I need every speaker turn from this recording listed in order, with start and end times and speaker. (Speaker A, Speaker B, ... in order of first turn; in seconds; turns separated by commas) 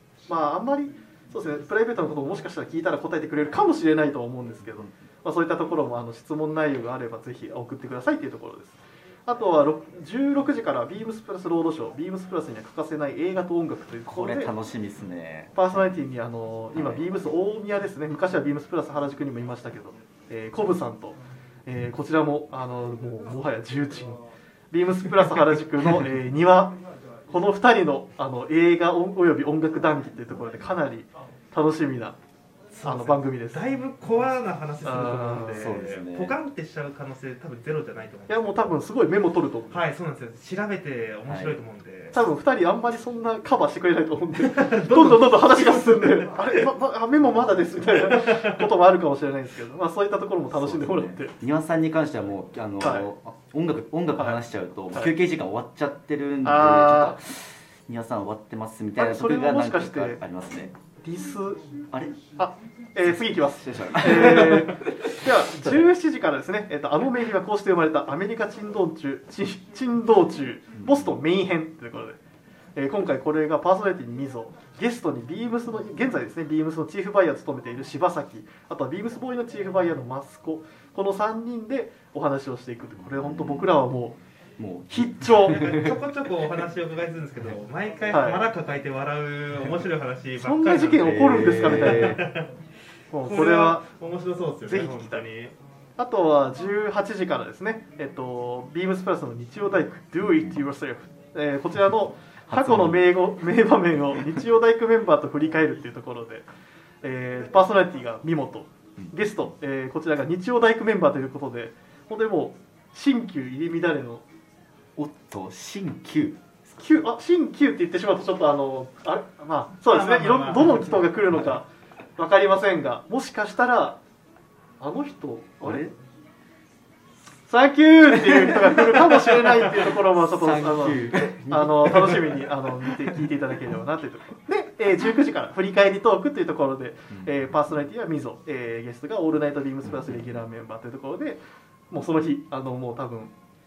Speaker A: 0.3-14.5, Speaker B: 14.1-15.8, Speaker A: 15.6-24.2, Speaker B: 16.8-17.0, Speaker A: 24.7-26.8, Speaker A: 27.3-32.2, Speaker C: 32.7-38.7, Speaker A: 32.8-33.6, Speaker A: 34.8-35.8, Speaker B: 35.5-36.4, Speaker A: 38.3-39.8, Speaker C: 39.7-42.2, Speaker B: 41.3-41.6, Speaker A: 42.1-51.4, Speaker C: 44.4-46.7, Speaker C: 48.0-48.7, Speaker B: 50.5-60.7, Speaker A: 52.8-53.1, Speaker A: 56.4-57.2, Speaker A: 59.0-60.2, Speaker A: 61.0-61.6, Speaker B: 61.9-62.2, Speaker A: 62.4-72.2, Speaker B: 63.6-65.8, Speaker B: 70.8-71.1, Speaker A: 72.8-84.2, Speaker B: 83.0-83.7, Speaker B: 84.6-86.0, Speaker A: 84.9-85.8, Speaker C: 85.5-92.5, Speaker A: 88.1-88.5, Speaker A: 90.4-92.3, Speaker B: 91.0-92.3, Speaker A: 93.1-93.9, Speaker C: 93.2-95.5, Speaker A: 94.7-95.2, Speaker A: 96.0-106.5, Speaker B: 102.5-103.0, Speaker A: 107.0-114.2, Speaker B: 115.0-116.4, Speaker A: 116.7-124.0, Speaker C: 119.9-121.0, Speaker A: 124.8-126.0, Speaker B: 125.6-125.9, Speaker A: 127.5-143.3, Speaker B: 128.2-132.5